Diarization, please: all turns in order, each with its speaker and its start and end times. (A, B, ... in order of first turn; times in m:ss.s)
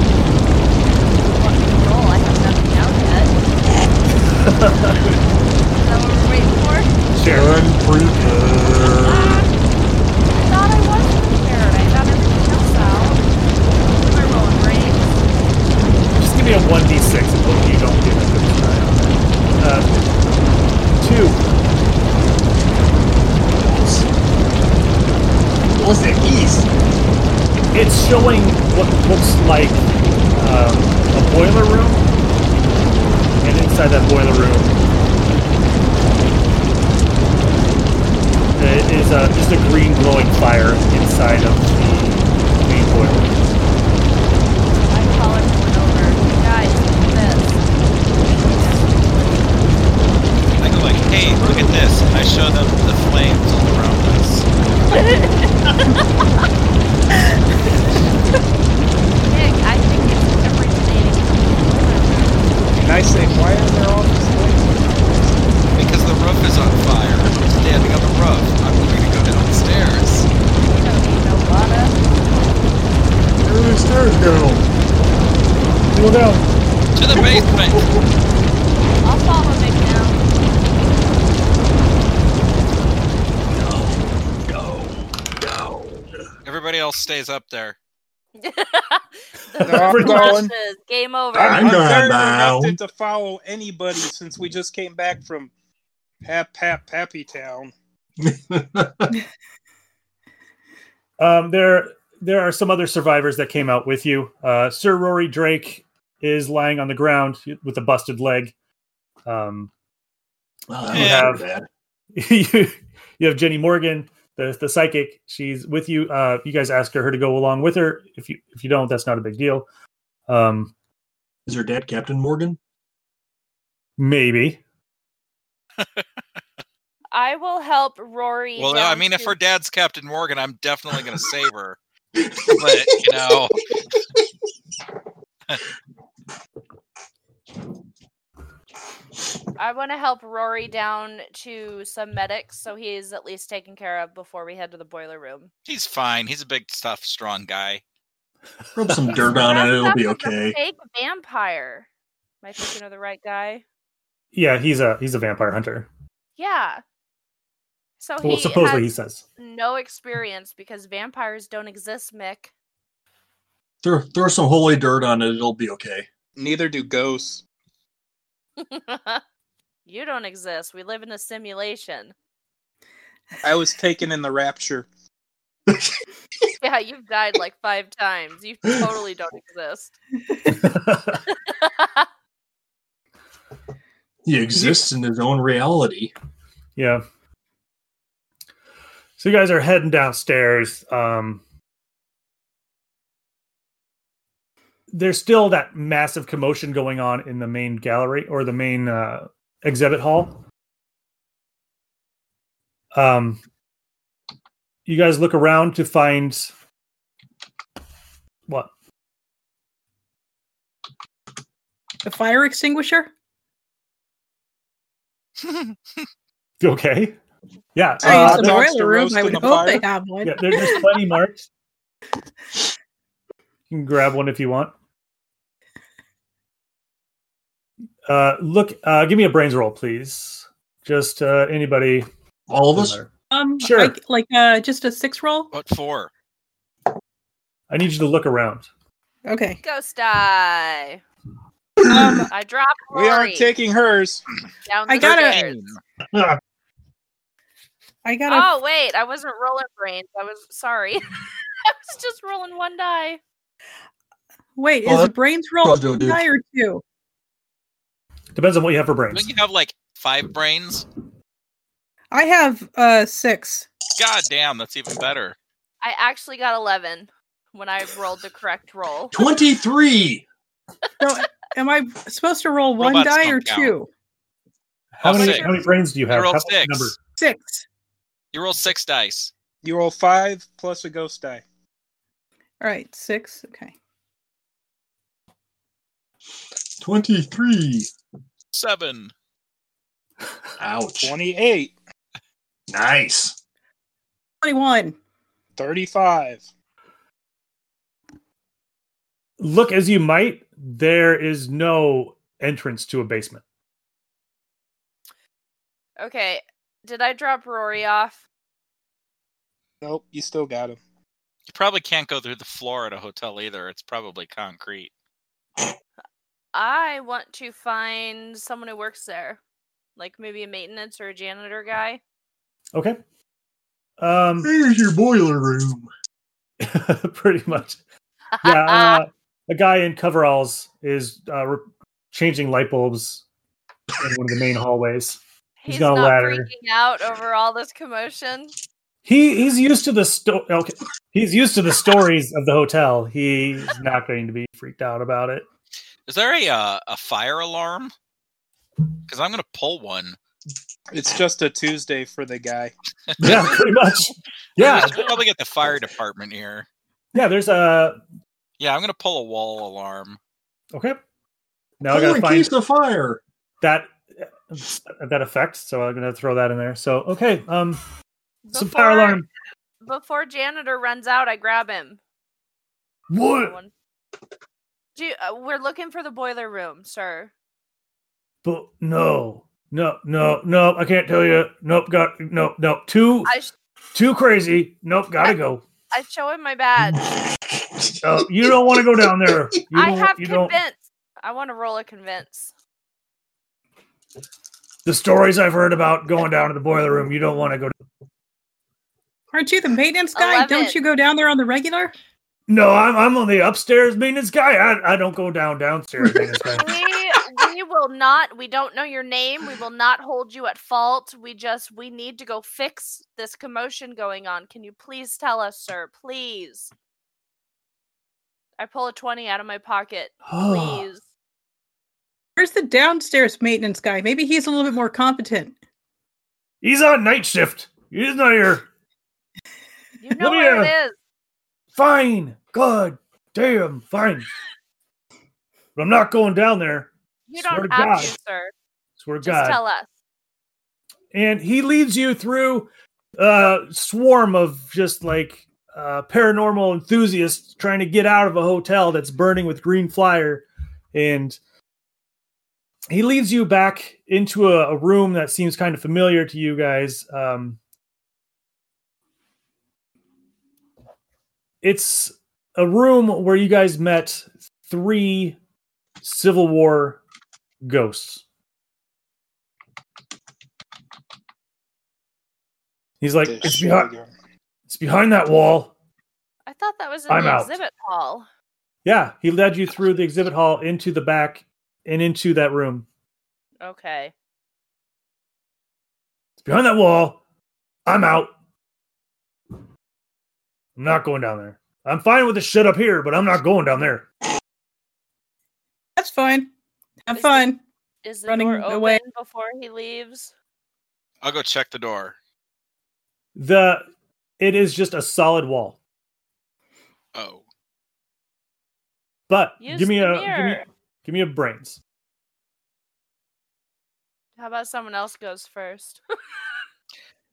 0:01.1-0:03.4 A
0:04.3-0:04.9 B
0:05.8-0:06.9 A
0:07.2-0:07.5 B
0:07.2-0:09.5 C
0:09.0-0:09.6 A
0:10.3-0:15.2 A
0:16.2-0:19.9 B
0:21.0-0:21.4 B
0:23.5-0:24.1 C
0:25.7-0:26.7 C
0:27.7-0:32.0 B
0:33.4-0:34.8 B
0:38.6-0:43.3 B
0:44.9-0:47.6 A
0:48.2-0:50.0 A
0:50.6-0:54.5 D
0:54.9-0:56.2 A
0:59.2-1:02.5 A
1:02.8-1:05.5 E
1:05.8-1:10.3 D
1:10.6-1:12.1 A
1:13.4-1:14.7 C
1:15.9-1:16.5 B
1:17.0-1:17.9 D
1:17.1-1:18.0 C
1:19.0-1:20.3 A
1:23.5-1:26.1 C
1:26.4-1:27.8 D
1:28.4-1:31.7 A
1:29.6-1:30.5 E
1:29.7-1:30.4 B
1:31.3-1:35.5 E
1:31.4-1:32.8 C
1:36.2-1:37.7 E
1:38.2-1:39.2 C
1:41.2-1:48.5 B
1:49.3-1:49.7 B
1:50.7-1:51.7 C
1:50.9-1:51.3 D
1:50.9-1:51.4 B
1:52.2-1:59.7 B
2:00.3-2:00.7 B
2:01.5-2:02.6 C
2:04.0-2:04.6 B
2:05.8-2:06.0 D
2:07.1-2:09.4 A
2:08.6-2:11.8 D
2:12.3-2:13.4 C
2:12.5-2:13.6 D
2:19.6-2:25.5 A
2:25.7-2:27.8 D
2:28.8-2:30.6 C
2:28.8-2:29.3 B
2:29.1-2:31.9 A
2:32.4-2:33.6 A
2:34.3-2:35.9 B
2:36.4-2:36.8 A
2:38.0-2:42.5 A
2:38.2-2:39.2 B
2:43.8-2:46.1 C
2:46.4-2:47.4 E
2:48.6-2:49.2 A
2:49.9-2:52.1 A
2:53.4-2:54.9 E
2:56.6-2:59.9 A
3:00.5-3:01.2 B
3:01.3-3:02.1 A
3:04.2-3:06.1 C
3:04.5-3:04.9 B
3:06.8-3:07.0 B
3:09.2-3:11.4 B
3:14.9-3:20.4 B
3:22.9-3:23.4 B
3:24.9-3:26.5 B
3:32.0-3:33.1 F
3:35.4-3:35.8 D
3:36.6-3:37.2 B
3:37.8-3:38.7 B
3:38.0-3:39.9 E
3:38.0-3:41.0 F
3:40.2-3:41.5 B
3:43.7-3:44.7 B
3:48.1-3:54.0 B
3:52.5-3:53.0 C
3:53.3-3:55.5 F
3:55.5-3:56.1 D
3:57.7-3:58.7 B
3:59.3-3:59.6 F
3:59.6-4:01.0 A
4:01.8-4:02.3 C
4:01.9-4:02.3 F
4:02.3-4:03.5 A
4:02.9-4:04.2 E
4:04.7-4:05.6 A
4:04.9-4:05.4 F
4:05.0-4:05.8 D
4:08.0-4:08.5 F
4:08.3-4:11.0 A
4:11.6-4:13.2 A
4:14.6-4:16.8 F
4:14.8-4:15.1 C
4:15.6-4:16.2 C
4:18.4-4:19.3 B
4:19.1-4:20.9 D
4:22.1-4:23.7 F
4:24.0-4:25.4 D
4:25.8-4:29.2 A
4:29.1-4:30.3 C
4:31.0-4:33.9 F
4:32.8-4:33.8 D
4:35.0-4:35.5 D
4:35.0-4:37.0 B
4:35.1-4:35.6 A
4:36.1-4:36.9 D
4:37.2-4:37.7 F
4:38.3-4:39.3 D
4:39.6-4:41.4 E
4:42.6-4:43.8 F
4:46.8-4:47.9 C
4:48.5-4:49.1 D
4:50.6-4:51.2 C
4:51.0-4:51.7 E
4:52.7-4:53.4 C
4:54.4-4:55.0 F
4:55.6-4:56.4 E
4:59.4-5:03.4 B
5:06.0-5:08.2 A
5:09.8-5:10.8 E
5:11.5-5:14.9 D
5:16.5-5:19.4 A
5:20.0-5:22.0 A
5:22.7-5:23.0 B
5:24.0-5:24.5 B
5:24.4-5:25.9 C
5:26.6-5:27.8 B
5:28.3-5:29.0 A
5:28.4-5:33.2 B
5:34.0-5:36.5 B
5:35.6-5:38.5 A
5:39.0-5:45.4 B
5:46.1-5:47.9 D
5:49.1-5:50.2 D
5:50.9-5:52.7 E
5:53.1-5:53.6 D
5:53.2-5:55.1 B
5:54.6-5:56.7 D
5:57.2-5:58.0 B
5:58.6-6:00.2 D
6:00.7-6:01.0 B
6:01.8-6:02.5 B
6:01.9-6:03.2 C
6:03.6-6:07.8 B
6:08.4-6:09.2 A
6:08.5-6:09.3 B
6:09.8-6:12.0 A
6:13.1-6:13.6 B
6:13.3-6:13.7 A
6:15.0-6:17.3 A
6:18.4-6:23.3 B
6:23.3-6:23.5 A
6:23.9-6:25.6 B
6:25.9-6:27.0 A
6:27.8-6:28.1 C
6:28.0-6:30.6 B
6:29.7-6:32.5 A
6:34.8-6:37.7 B
6:39.3-6:41.9 F
6:40.2-6:40.8 A
6:42.5-6:46.8 B
6:46.5-6:56.7 A
6:58.6-7:01.0 A
7:00.3-7:00.9 B
7:02.4-7:05.6 F
7:06.6-7:08.7 B
7:10.0-7:11.0 A
7:10.2-7:10.7 B
7:11.8-7:14.3 B
7:15.8-7:18.1 B
7:17.3-7:18.5 A
7:19.0-7:19.6 B
7:19.2-7:19.9 A
7:21.1-7:31.4 B
7:32.9-7:37.6 B
7:41.6-7:45.4 B
7:46.0-7:47.0 B
7:47.6-7:48.2 B
7:53.0-7:53.9 B
7:53.2-7:54.1 E
7:54.7-7:55.7 B
7:56.5-7:58.3 A
7:57.1-7:57.5 B
7:58.8-8:02.9 B
8:03.6-8:04.1 A
8:06.4-8:07.2 B
8:07.9-8:08.3 B
8:10.8-8:14.1 B
8:16.0-8:16.5 F
8:17.1-8:17.6 F
8:17.1-8:17.5 A
8:18.0-8:20.3 A
8:18.3-8:19.0 F
8:21.2-8:22.2 D
8:23.4-8:23.8 B
8:24.4-8:25.8 B
8:27.2-8:27.4 D
8:29.3-8:31.8 B
8:29.6-8:30.6 A
8:34.4-8:36.0 A